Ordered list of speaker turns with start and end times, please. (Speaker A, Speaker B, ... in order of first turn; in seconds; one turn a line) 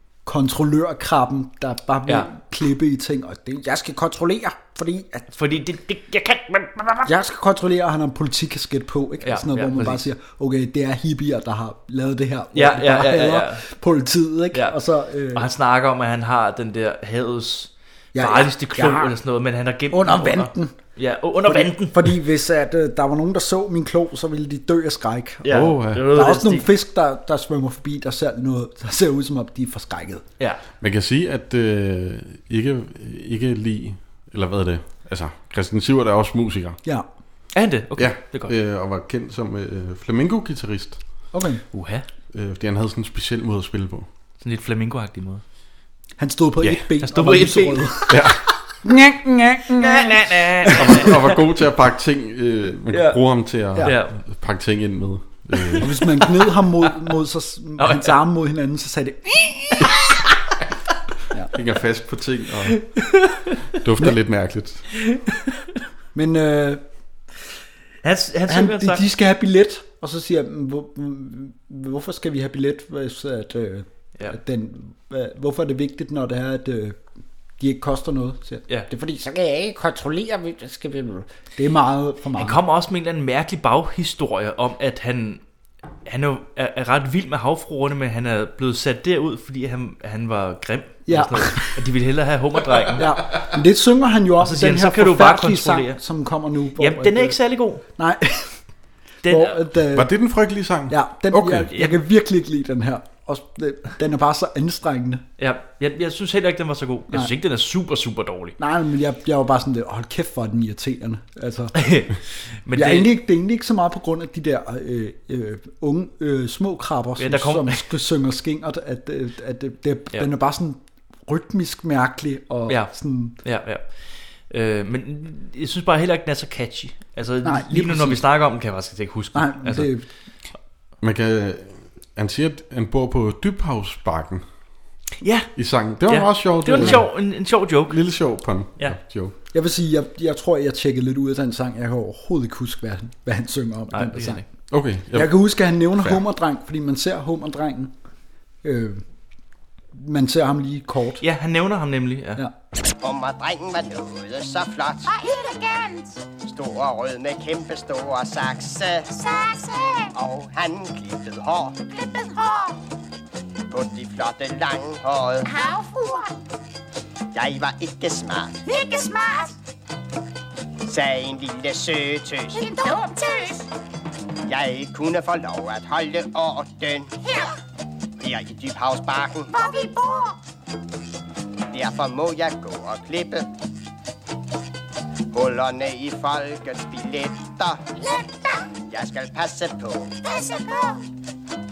Speaker A: 0.3-5.3
Speaker B: 5.3-7.1
Speaker A: 7.0-15.5
Speaker B: 9.2-10.1
Speaker B: 12.5-13.6
Speaker B: 15.3-22.1
Speaker A: 18.1-19.1
Speaker A: 19.9-20.8
Speaker A: 21.4-30.2
Speaker B: 25.4-26.7
Speaker C: 25.5-26.1
Speaker C: 30.8-36.8
Speaker B: 37.5-38.5
Speaker C: 38.0-41.0
Speaker A: 41.3-41.6
Speaker B: 41.7-42.1
Speaker C: 42.3-44.1
Speaker B: 44.4-45.4
Speaker A: 46.2-50.8
Speaker B: 46.7-48.1
Speaker C: 48.1-48.4
Speaker B: 49.8-51.4
Speaker C: 50.7-55.9
Speaker B: 52.9-53.2
Speaker B: 53.8-54.1
Speaker B: 55.6-55.8
Speaker A: 55.8-59.9
Speaker B: 57.8-58.2
Speaker C: 61.5-62.9
Speaker B: 63.0-63.6
Speaker C: 63.7-64.9
Speaker A: 66.1-66.8
Speaker B: 68.0-69.1
Speaker A: 68.5-77.0
Speaker A: 77.6-82.6
Speaker B: 82.4-85.4
Speaker B: 86.1-93.0
Speaker A: 91.1-91.8
Speaker A: 93.0-97.4
Speaker B: 94.4-96.0
Speaker B: 96.8-97.8
Speaker A: 97.9-98.6
Speaker B: 99.2-99.6
Speaker A: 99.3-100.1
Speaker C: 99.9-101.7
Speaker A: 100.9-105.2
Speaker B: 101.7-102.0
Speaker B: 105.4-108.6
Speaker A: 108.6-111.8
Speaker B: 111.8-113.1
Speaker A: 112.7-123.4
Speaker B: 117.2-117.8
Speaker B: 123.4-123.8
Speaker B: 124.5-129.9
Speaker A: 127.4-128.2
Speaker A: 129.3-130.1
Speaker C: 131.0-134.4
Speaker B: 135.2-135.5
Speaker C: 135.6-137.3
Speaker B: 136.1-138.0
Speaker C: 137.9-139.3
Speaker A: 139.5-144.4
Speaker B: 143.9-144.4
Speaker C: 144.7-145.4
Speaker A: 145.1-147.9
Speaker A: 148.6-149.0
Speaker A: 149.9-151.2
Speaker B: 151.2-152.4
Speaker D: 153.0-155.2
Speaker E: 155.2-156.2
Speaker D: 156.4-159.1
Speaker E: 159.3-160.0
Speaker D: 160.1-161.8
Speaker E: 161.9-162.7
Speaker D: 163.7-165.6
Speaker E: 165.5-166.3
Speaker D: 167.3-168.6
Speaker E: 168.7-169.5
Speaker D: 170.8-172.9
Speaker E: 172.6-173.6
Speaker D: 174.5-177.3
Speaker D: 178.2-179.7
Speaker E: 179.5-180.3
Speaker D: 181.7-183.5
Speaker D: 185.3-187.9
Speaker E: 188.0-188.6
Speaker D: 188.9-190.2
Speaker E: 190.2-191.0